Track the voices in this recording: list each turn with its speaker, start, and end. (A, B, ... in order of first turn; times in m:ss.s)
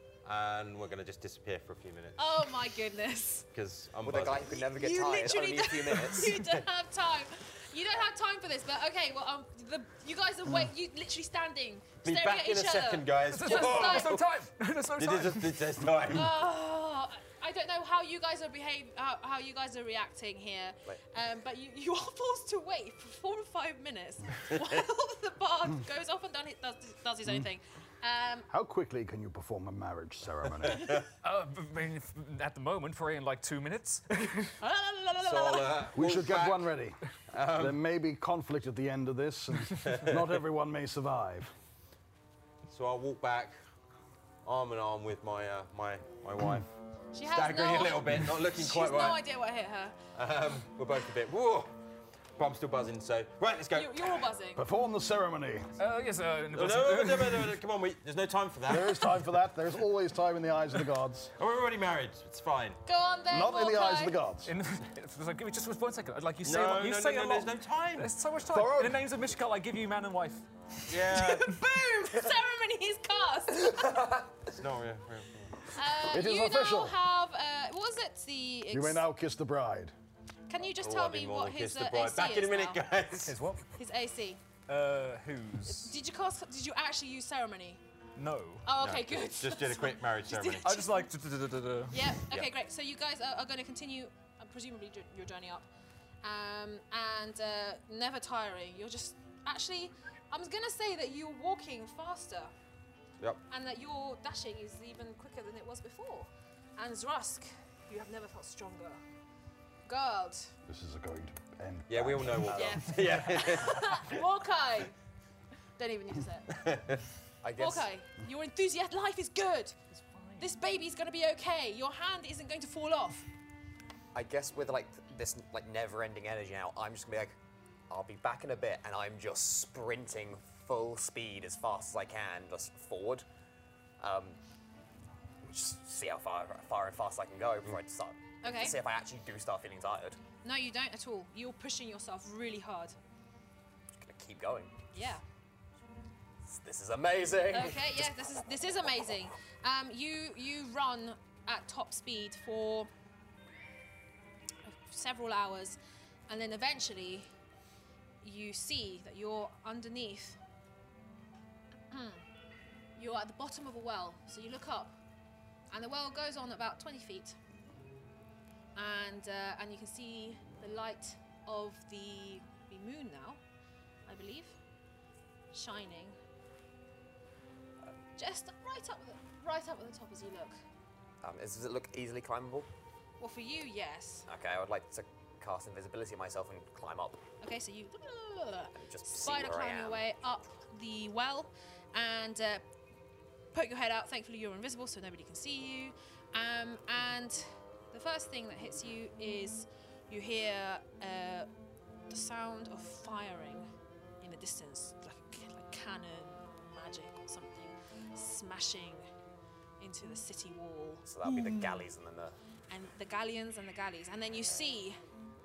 0:00.2-0:02.4 A
0:02.2-0:03.5 B
0:03.5-0:04.5 A
0:04.0-0:06.4 C
0:04.6-0:14.2 B
0:12.0-0:14.3 A
0:13.3-0:15.9 D
0:15.0-0:16.3 A
0:16.1-0:28.5 B
0:28.5-0:31.0 E
0:31.2-0:34.6 D
0:34.6-0:35.8 B
0:35.2-0:36.8 A
0:36.0-0:41.5 E
0:37.3-0:37.8 A
0:39.8-0:40.4 A
0:42.7-0:43.6 A
0:44.4-0:46.7 A
0:47.1-0:50.0 B
0:47.3-0:49.2 A
0:50.2-0:51.8 A
0:52.4-0:54.3 A
0:53.7-0:54.6 B
0:54.6-0:55.7 E
0:55.8-0:57.6 D
0:56.5-0:59.3 A
0:58.7-1:01.3 E
1:01.4-1:02.8 A
1:02.9-1:04.2 B
1:03.3-1:04.5 E
1:04.4-1:11.5 D
1:06.4-1:08.1 A
1:08.5-1:09.0 E
1:10.9-1:11.5 A
1:11.1-1:13.9 B
1:13.8-1:14.2 C
1:14.5-1:15.7 A
1:15.7-1:19.0 B
1:16.0-1:17.0 E
1:18.7-1:19.9 E
1:20.5-1:22.8 B
1:20.8-1:23.4 A
1:23.2-1:23.7 D
1:23.8-1:24.4 B
1:24.7-1:26.0 D
1:25.7-1:27.8 B
1:28.2-1:28.7 D
1:28.6-1:31.1 B
1:28.8-1:30.8 A
1:30.6-1:32.2 D
1:31.9-1:35.7 B
1:36.2-1:42.5 B
1:43.5-1:49.0 B
1:49.9-1:50.5 B
1:50.7-1:52.6 E
1:51.9-1:54.2 A
1:52.5-1:53.0 C
1:52.5-1:55.0 B
1:55.8-1:56.6 B
1:56.5-1:57.0 A
1:57.4-1:57.9 C
1:57.6-1:59.8 B
1:59.9-2:00.5 D
2:00.4-2:03.3 B
2:04.1-2:07.4 C
2:07.9-2:13.2 C
2:14.0-2:14.4 C
2:15.4-2:20.2 C
2:18.4-2:18.8 B
2:20.4-2:23.0 B
2:24.0-2:24.8 C
2:24.9-2:25.2 B
2:26.4-2:29.1 C
2:27.5-2:32.9 B
2:34.6-2:37.3 B
2:38.2-2:40.4 B
2:41.9-2:42.2 B
2:43.0-2:45.0 B
2:45.7-2:47.4 B
2:48.8-2:53.4 B
2:54.1-2:54.6 B
2:55.5-2:56.2 B
2:58.2-3:00.6 B
3:01.2-3:02.7 C
3:03.2-3:04.3 B
3:04.3-3:07.2 C
3:07.4-3:12.6 B
3:08.7-3:10.0 C
3:13.5-3:21.5 B
3:22.1-3:23.7 B
3:24.2-3:29.1 B
3:29.8-3:31.9 B
3:31.1-3:32.4 C
3:32.7-3:35.0 B